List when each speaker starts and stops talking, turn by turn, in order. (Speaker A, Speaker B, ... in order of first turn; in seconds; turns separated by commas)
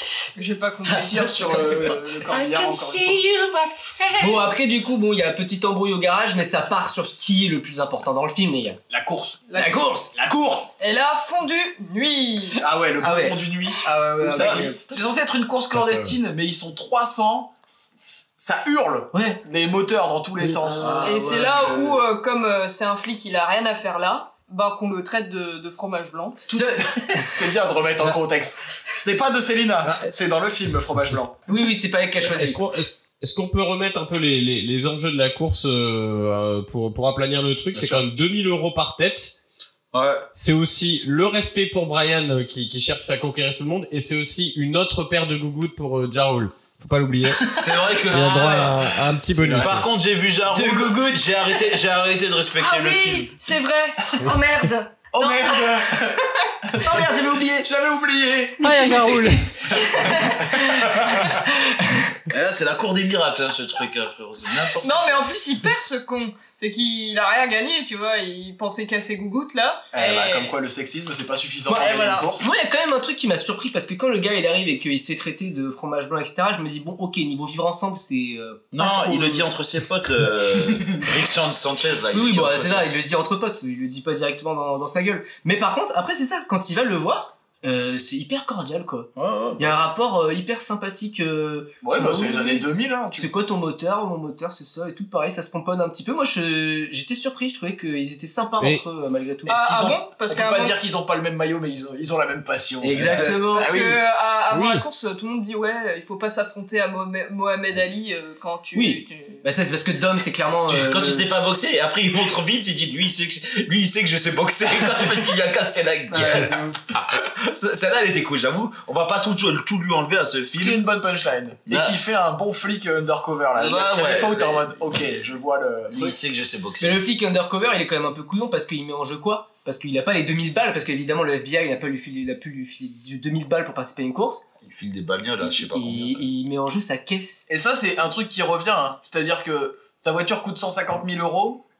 Speaker A: 0.3-1.6, Speaker B: 0.9-3.3, Speaker C: 2.3-4.4, Speaker D: 4.2-8.8, Speaker B: 8.9-9.5, Speaker A: 9.5-9.8, Speaker D: 9.6-10.1, Speaker B: 10.1-10.7, Speaker A: 10.8-12.6, Speaker B: 12.6-21.9, Speaker D: 13.0-14.8, Speaker A: 14.0-14.6, Speaker E: 15.7-16.2, Speaker D: 19.1-19.4, Speaker D: 20.4-22.0, Speaker A: 21.0-26.5, Speaker D: 26.5-27.4, Speaker B: 26.5-31.4, Speaker D: 31.5-32.6, Speaker E: 32.2-39.3, Speaker C: 37.7-38.1, Speaker C: 39.9-40.3, Speaker E: 40.4-49.9, Speaker C: 47.5-48.9, Speaker B: 49.4-49.7, Speaker C: 49.5-53.3, Speaker D: 50.5-51.5, Speaker A: 52.6-57.1, Speaker B: 55.1-61.4, Speaker D: 56.8-57.7, Speaker E: 58.6-59.5, Speaker D: 58.6-59.8, Speaker A: 58.7-60.5, Speaker C: 62.3-65.2, Speaker A: 64.8-70.6, Speaker B: 69.9-72.5, Speaker A: 71.7-72.3, Speaker D: 72.4-79.5, Speaker C: 78.7-82.9, Speaker D: 82.1-99.8, Speaker B: 89.2-89.5, Speaker B: 91.8-93.3, Speaker A: 99.5-100.8, Speaker B: 99.5-104.0, Speaker D: 102.8-103.9, Speaker C: 102.9-103.3, Speaker A: 103.5-109.5, Speaker E: 104.5-104.8, Speaker D: 108.7-111.3, Speaker C: 110.7-120.9, Speaker D: 116.1-116.7, Speaker B: 120.5-126.1, Speaker C: 121.7-122.0, Speaker C: 123.5-125.0, Speaker C: 125.9-127.0, Speaker D: 126.8-134.4, Speaker C: 134.6-136.2, Speaker D: 135.4-137.4, Speaker B: 137.5-141.6